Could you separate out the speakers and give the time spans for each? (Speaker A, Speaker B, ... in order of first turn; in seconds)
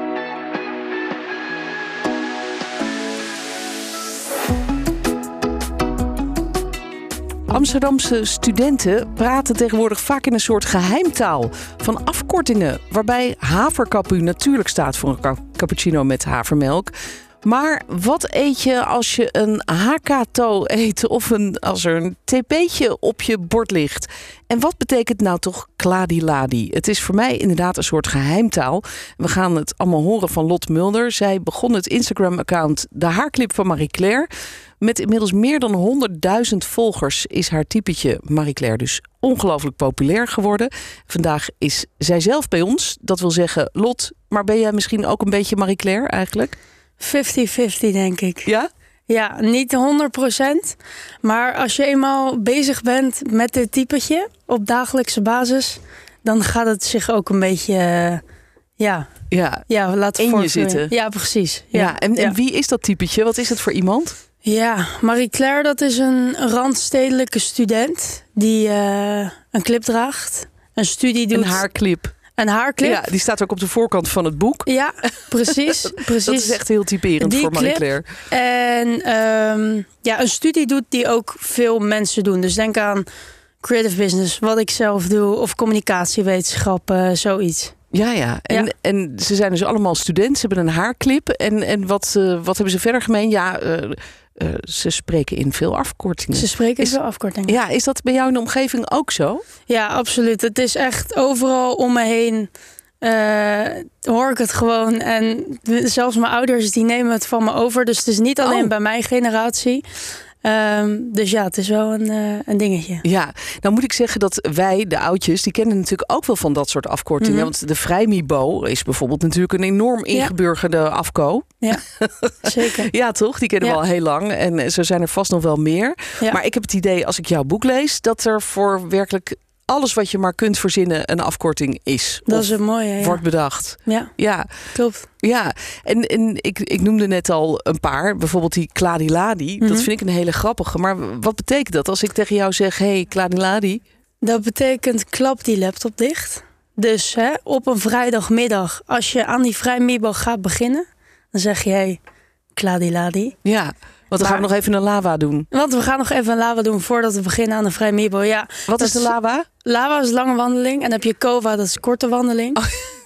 Speaker A: 7.5-16.9, 17.4-34.3, 34.8-46.6, 59.3-59.7, 60.2-60.9, 61.7-64.2, 71.3-72.2, 72.8-74.7, 75.5-78.1, 87.9-99.4, 108.4-108.7, 113.0-134.5, 135.2-143.8, 153.4-155.5, 158.7-159.5
Speaker B: 47.0-48.5, 49.1-58.2, 58.8-59.1, 59.7-62.4, 64.4-71.7, 72.4-73.0, 74.7-76.6, 77.2-83.1, 83.6-87.8, 96.3-97.6, 99.7-109.9, 110.4-113.0, 117.2-117.5, 122.4-122.9, 132.3-133.2, 133.8-134.1, 134.7-135.1, 139.6-139.9, 144.2-152.0, 152.5-153.4, 154.2-154.4, 155.5-162.6